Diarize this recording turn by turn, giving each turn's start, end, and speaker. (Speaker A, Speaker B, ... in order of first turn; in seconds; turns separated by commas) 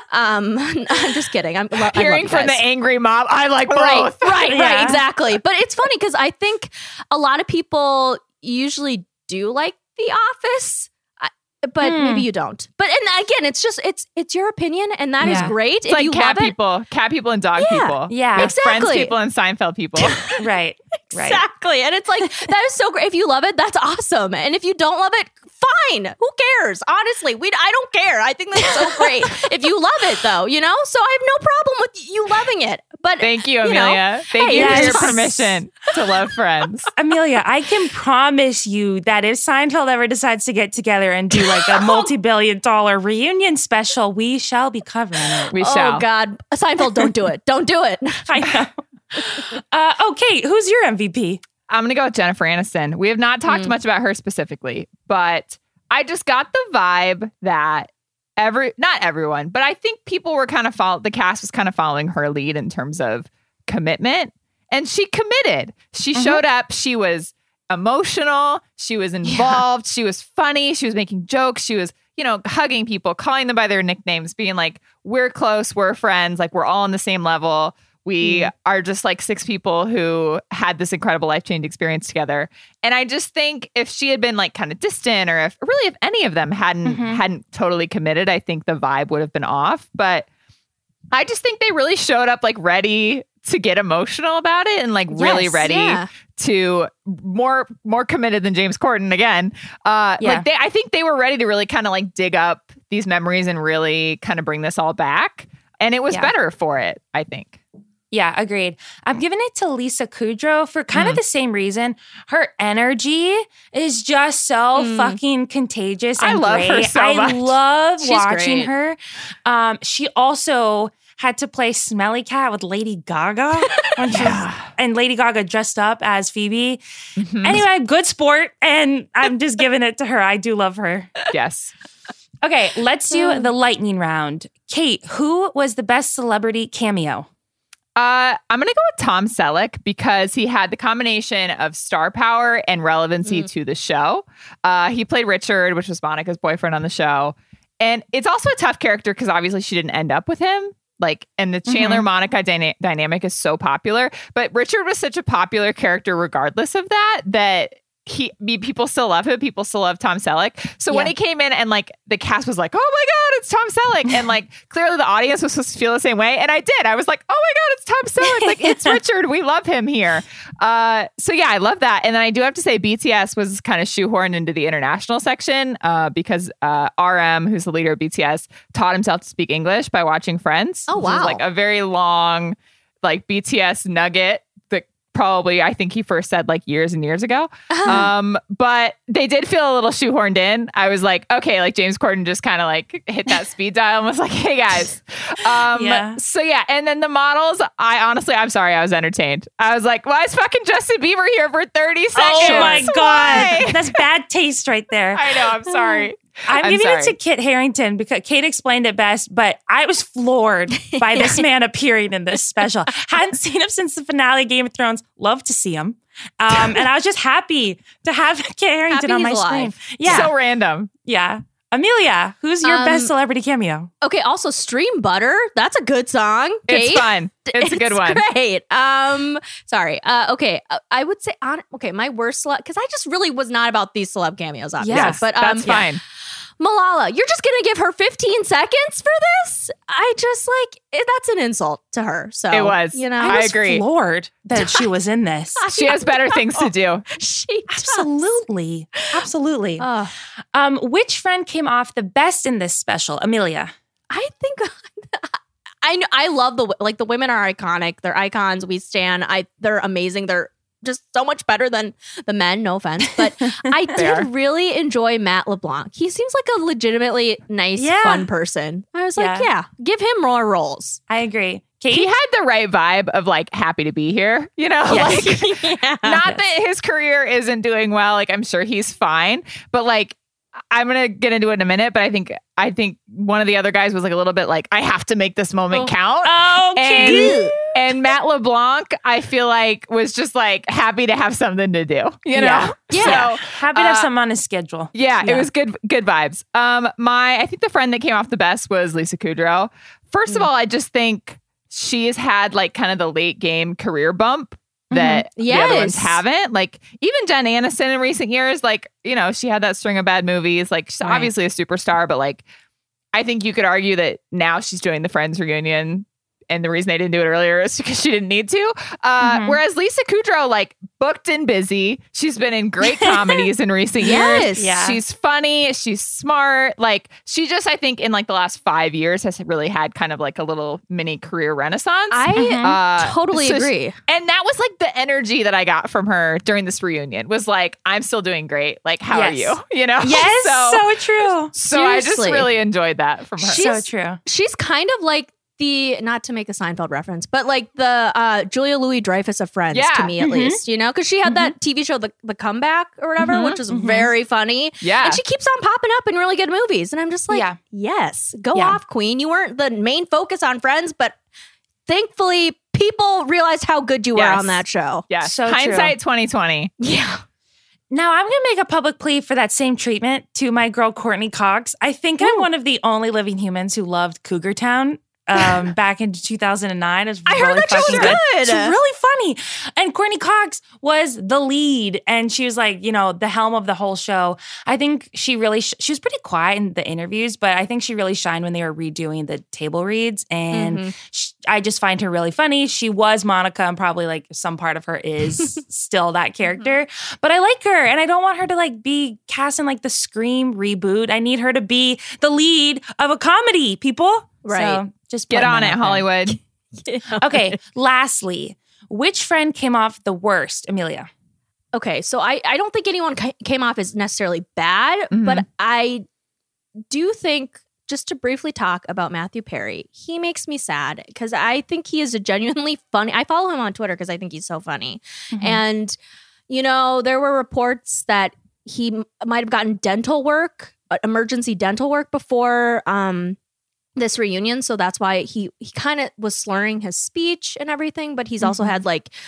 Speaker A: 0.1-2.6, Speaker B: 1.9-4.5, Speaker A: 3.7-16.5, Speaker C: 4.5-5.0, Speaker C: 11.8-12.3, Speaker C: 15.2-15.5, Speaker B: 15.3-20.2, Speaker A: 17.6-19.1, Speaker C: 18.1-18.5, Speaker A: 20.0-20.4, Speaker C: 20.4-21.4, Speaker A: 21.1-35.2, Speaker B: 33.2-36.9, Speaker C: 34.5-35.5, Speaker C: 36.9-45.5, Speaker A: 41.5-42.1, Speaker B: 45.5-46.0, Speaker A: 45.5-48.4, Speaker C: 48.3-51.4, Speaker B: 51.7-90.3, Speaker C: 66.1-66.4, Speaker A: 69.2-69.6, Speaker C: 86.8-87.2, Speaker B: 91.1-107.6, Speaker A: 95.2-96.1, Speaker C: 95.2-95.5, Speaker C: 100.2-100.5, Speaker C: 108.1-126.8, Speaker B: 110.9-111.2, Speaker A: 114.7-115.2, Speaker B: 116.2-117.5, Speaker A: 118.0-118.7, Speaker B: 124.1-124.7, Speaker B: 127.2-127.6, Speaker C: 127.4-131.1, Speaker B: 131.3-131.7, Speaker C: 132.4-137.3, Speaker B: 137.9-203.8, Speaker C: 151.7-152.0, Speaker C: 168.2-169.0, Speaker A: 180.9-181.4, Speaker A: 187.7-188.1, Speaker C: 195.7-196.2, Speaker A: 202.2-203.6, Speaker C: 202.2-220.3, Speaker B: 205.1-207.2, Speaker A: 210.8-211.4, Speaker A: 218.9-220.2, Speaker B: 220.0-220.9, Speaker C: 221.0-223.9, Speaker A: 222.6-223.1, Speaker A: 224.0-235.8, Speaker B: 226.7-228.2, Speaker C: 234.8-235.8, Speaker B: 234.9-236.0, Speaker A: 236.6-243.4, Speaker B: 242.5-243.8, Speaker C: 243.2-245.6, Speaker A: 245.6-248.1, Speaker B: 245.7-247.1, Speaker C: 247.7-249.9, Speaker A: 249.8-250.1, Speaker C: 250.5-253.7, Speaker A: 254.1-271.0, Speaker B: 263.9-264.3, Speaker C: 267.8-268.3, Speaker C: 269.2-269.5, Speaker C: 271.1-272.1, Speaker B: 271.9-280.2, Speaker A: 274.9-276.2, Speaker B: 280.7-294.1, Speaker C: 286.2-287.5, Speaker A: 287.0-287.6, Speaker A: 292.3-293.3, Speaker C: 292.9-295.4, Speaker B: 294.9-312.4, Speaker C: 304.9-305.2, Speaker A: 305.4-306.2, Speaker C: 311.0-311.3, Speaker B: 313.1-343.7, Speaker C: 319.2-319.6, Speaker A: 324.0-324.8, Speaker C: 324.0-325.0, Speaker A: 332.1-333.9, Speaker C: 332.4-332.7, Speaker C: 339.1-341.5, Speaker A: 341.6-342.5, Speaker C: 343.4-344.2, Speaker A: 343.6-361.1, Speaker B: 349.7-350.1, Speaker C: 350.2-350.6, Speaker C: 351.2-351.5, Speaker B: 353.2-353.6, Speaker C: 353.7-354.1, Speaker B: 354.8-355.2, Speaker C: 357.3-357.6, Speaker C: 358.5-358.8, Speaker A: 361.9-365.1, Speaker B: 364.1-366.7, Speaker C: 365.2-365.9, Speaker A: 366.8-367.2, Speaker C: 367.9-406.1, Speaker A: 377.2-378.7, Speaker B: 377.8-378.1, Speaker A: 390.5-390.9, Speaker A: 404.4-404.8, Speaker B: 405.3-406.4, Speaker A: 406.8-407.6, Speaker C: 407.2-411.1, Speaker A: 411.7-416.0, Speaker B: 415.1-415.4, Speaker A: 416.9-425.9, Speaker C: 425.3-425.6, Speaker A: 426.5-433.4, Speaker A: 433.9-439.1, Speaker C: 438.4-438.7